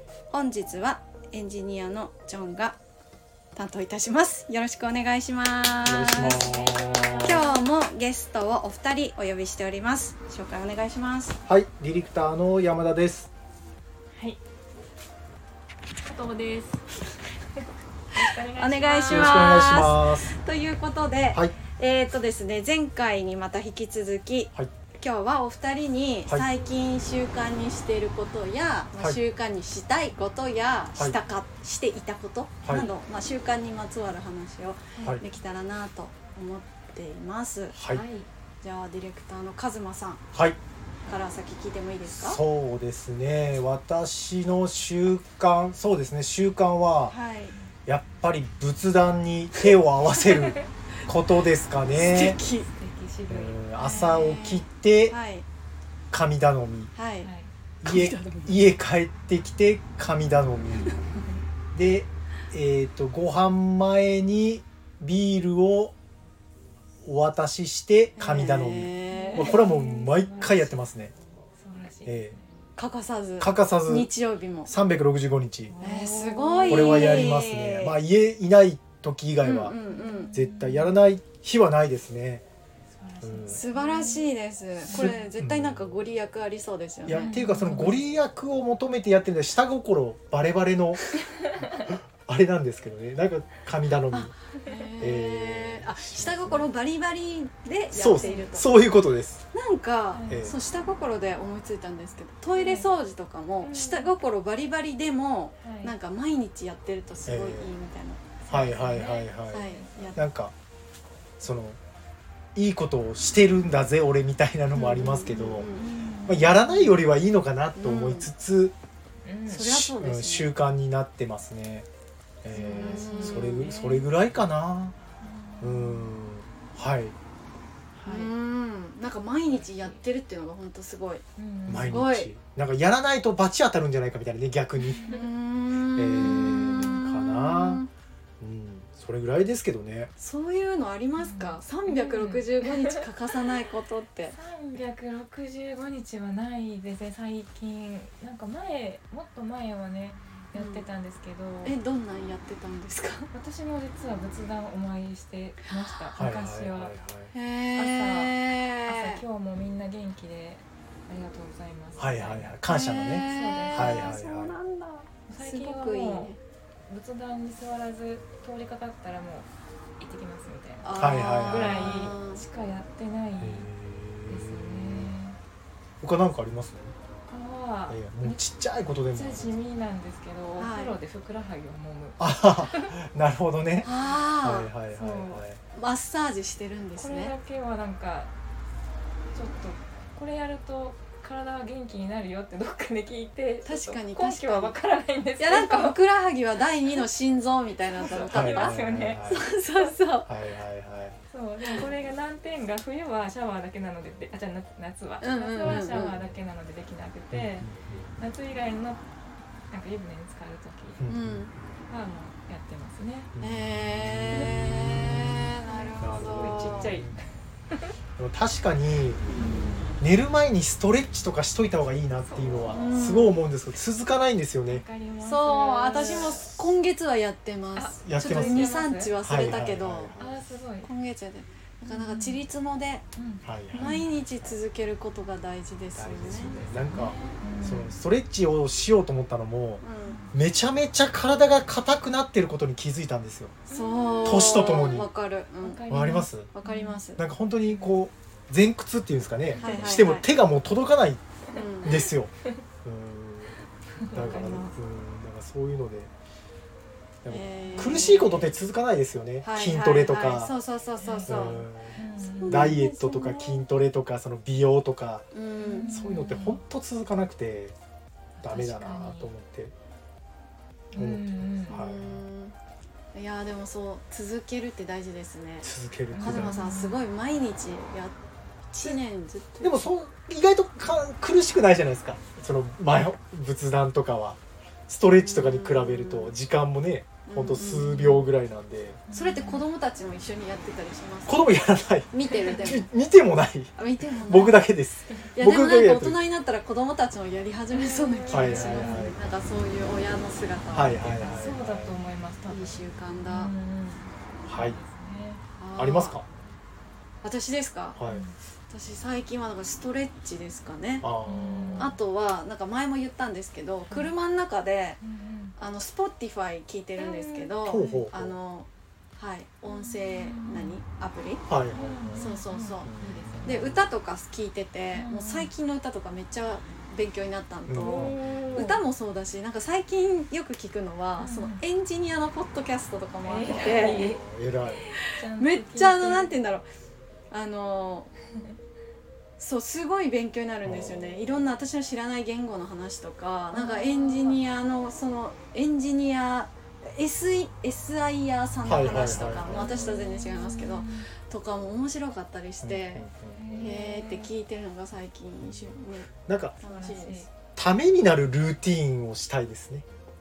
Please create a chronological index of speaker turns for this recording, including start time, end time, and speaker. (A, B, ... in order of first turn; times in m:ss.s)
0:00.3-0:02.8 A
0:03.5-0:06.6 A
0:05.8-0:07.4 B
0:06.2-0:07.7 C
0:07.2-0:11.4 A
0:11.5-0:13.3 B
0:14.1-0:14.4 C
0:16.0-0:17.0 C
0:18.1-0:19.8 C
0:18.2-0:37.8 A
0:19.1-0:20.3 B
0:32.6-0:32.9 B
0:37.7-0:38.0 B
0:37.9-0:38.3 C
0:38.6-0:40.2 A
0:40.3-0:40.6 B
0:41.0-0:42.4 A
0:42.1-0:47.1 B
0:47.1-0:47.5 A
0:47.9-0:52.4 B
0:51.9-0:52.7 A
0:52.7-0:54.1 C
0:53.3-0:55.1 B
0:53.8-0:55.4 A
0:56.1-0:56.9 B
0:56.9-0:57.3 A
0:57.2-0:57.5 C
0:57.8-1:01.0 B
0:57.8-0:58.6 A
1:01.7-1:05.9 B
1:07.0-1:11.1 B
1:08.2-1:09.6 A
1:09.1-1:10.8 C
1:11.6-1:12.4 C
1:12.0-1:12.3 B
1:12.8-1:14.7 A
1:13.4-1:14.1 B
1:14.6-1:15.7 B
1:15.7-1:17.4 C
1:15.8-1:18.0 A
1:16.7-1:19.8 B
1:19.4-1:20.3 A
1:19.9-1:20.9 C
1:20.3-1:22.4 B
1:22.9-1:24.2 C
1:23.2-1:23.6 B
1:23.5-1:27.3 A
1:24.9-1:25.2 C
1:24.9-1:25.9 B
1:27.0-1:31.2 B
1:27.1-1:28.1 C
1:32.2-1:34.3 B
1:34.1-1:38.7 A
1:35.0-1:36.6 B
1:37.9-1:39.4 B
1:38.1-1:38.5 C
1:39.5-1:48.4 A
1:40.1-1:40.5 C
1:40.3-1:40.5 B
1:42.5-1:42.9 C
1:43.6-1:44.1 C
1:45.6-1:45.9 C
1:47.3-1:47.7 B
1:48.4-1:50.2 C
1:48.5-1:50.5 B
1:49.5-1:50.2 A
1:51.4-1:51.8 B
1:52.5-1:55.7 B
1:54.7-1:55.9 A
1:55.8-1:57.0 C
1:56.2-1:58.7 B
1:57.8-1:58.3 A
1:59.2-1:59.7 C
1:59.5-2:00.5 A
1:59.5-2:01.9 B
2:02.4-2:05.0 B
2:02.5-2:03.6 A
2:02.6-2:04.1 C
2:05.2-2:06.2 C
2:05.6-2:07.1 B
2:08.0-2:08.3 C
2:08.0-2:11.2 A
2:09.4-2:10.0 C
2:11.4-2:12.0 C
2:11.7-2:15.1 B
2:11.8-2:12.3 A
2:14.8-2:15.2 C
2:15.0-2:17.9 A
2:16.0-2:17.8 B
2:16.2-2:17.0 C
2:18.4-2:20.1 B
2:20.2-2:24.4 A
2:21.2-2:23.0 C
2:24.3-2:31.8 C
2:30.5-2:30.8 A
2:31.6-2:33.3 A
2:33.3-2:36.9 C
2:35.7-2:36.1 A
2:36.2-2:37.3 B
2:37.3-2:39.2 A
2:37.7-2:42.6 C
2:42.0-2:44.5 B
2:42.7-2:46.4 A
2:43.2-2:44.2 C
2:45.3-2:46.3 C
2:46.9-2:49.5 C
2:50.0-2:53.7 C
2:50.8-2:52.4 A
2:50.9-2:52.1 B
2:53.4-2:55.1 B
2:54.3-2:55.4 C
2:56.0-2:56.9 B
2:57.3-3:02.9 C
2:57.9-2:59.5 B
3:00.6-3:01.0 A
3:02.2-3:03.9 B
3:03.8-3:04.7 A
3:04.4-3:05.6 B
3:04.9-3:05.4 C
3:05.7-3:07.3 A
3:07.0-3:08.3 C
3:09.3-3:16.0 C
3:13.6-3:14.7 A
3:15.4-3:18.7 A
3:18.0-3:19.2 C
3:18.3-3:19.5 B
3:19.2-3:20.3 A
3:20.2-3:21.2 B
3:21.3-3:27.7 C
3:25.2-3:26.2 A
3:25.6-3:26.2 B
3:27.3-3:28.1 B
3:28.2-3:29.0 C
3:29.7-3:31.0 C
3:31.0-3:31.5 B
3:31.1-3:31.5 A
3:31.9-3:33.3 C
3:33.3-3:37.1 B
3:33.4-3:36.9 A
3:34.3-3:37.9 C
3:38.2-3:39.2 B
3:39.3-3:39.5 A
3:39.3-3:39.9 C
3:40.0-3:44.8 B
3:42.2-3:42.8 C
3:42.7-3:43.4 A
3:44.7-3:46.5 C
3:45.2-3:50.1 A
3:45.9-3:46.5 B
3:47.8-3:49.1 C
3:48.0-3:50.4 B
3:50.2-3:50.9 C
3:50.8-3:53.0 A
3:51.9-3:52.4 C
3:53.2-3:54.0 C
3:53.4-3:54.0 B
3:53.7-3:56.6 A
3:55.9-4:03.6 B
3:56.9-3:57.9 C
3:59.8-4:00.2 A
4:00.0-4:00.3 C
4:03.7-4:04.9 C
4:03.7-4:05.8 A
4:04.2-4:05.1 B
4:05.6-4:07.0 C
4:05.9-4:06.5 B
4:06.5-4:07.2 A
4:07.2-4:11.2 B
4:07.6-4:08.0 C
4:09.5-4:09.8 C
4:09.6-4:10.3 A
4:11.5-4:12.0 A
4:11.8-4:12.3 B
4:12.8-4:13.6 B
4:14.0-4:14.7 C
4:14.1-4:16.1 B
4:14.2-4:14.7 A
4:17.2-4:20.5 B
4:17.3-4:18.5 A
4:17.6-4:18.3 C
4:19.4-4:21.7 A
4:21.0-4:22.8 C
4:21.3-4:25.3 B
4:22.2-4:23.6 A
4:25.3-4:25.9 A
4:25.6-4:26.6 C
4:25.9-4:27.8 B
4:28.4-4:29.7 B
4:28.4-4:29.3 C
4:30.9-4:31.8 C
4:30.9-4:32.1 B
4:31.7-4:32.5 A
4:33.1-4:35.7 A
4:35.6-4:36.6 B
4:36.1-4:37.0 C
4:36.2-4:38.1 A
4:38.7-4:39.8 A
4:39.6-4:49.0 B
4:45.1-4:46.3 A
4:47.2-4:48.2 A
4:49.1-4:49.6 C
4:49.1-4:51.5 A
4:51.3-4:56.2 B
4:52.1-4:52.9 A
4:53.8-4:54.7 A
4:55.3-5:01.2 A
4:57.7-4:59.1 C
4:58.3-4:59.2 B
5:00.7-5:02.0 B
5:01.1-5:05.4 C
5:02.4-5:03.5 A
5:04.5-5:04.8 B
5:05.6-5:06.2 A
5:05.8-5:06.2 B
5:07.2-5:08.0 A
5:08.0-5:08.3 B
5:08.0-5:08.3 C
5:08.7-5:11.1 A
5:11.0-5:12.0 B
5:11.2-5:12.0 C
5:11.8-5:15.0 A
5:15.0-5:15.6 C
5:15.6-5:21.5 A
5:17.0-5:18.1 C
5:17.6-5:18.4 B
5:19.7-5:20.8 C
5:21.5-5:23.8 B
5:21.7-5:23.6 C
5:22.1-5:22.9 A
5:23.4-5:34.1 A
5:24.9-5:25.5 C
5:27.7-5:28.6 B
5:27.8-5:28.8 C
5:31.2-5:31.6 C
5:33.2-5:34.2 C
5:33.5-5:34.9 B
5:34.8-5:36.4 C
5:35.0-5:36.6 A
5:37.3-5:38.1 A
5:39.4-5:57.3 A
5:40.6-5:41.2 B
5:43.5-5:44.4 C
5:48.6-5:50.1 B
5:48.8-5:51.1 C
5:52.6-5:53.7 B
5:53.3-5:54.3 C
5:56.3-5:56.6 B
5:56.6-5:57.3 C
5:57.6-5:59.8 B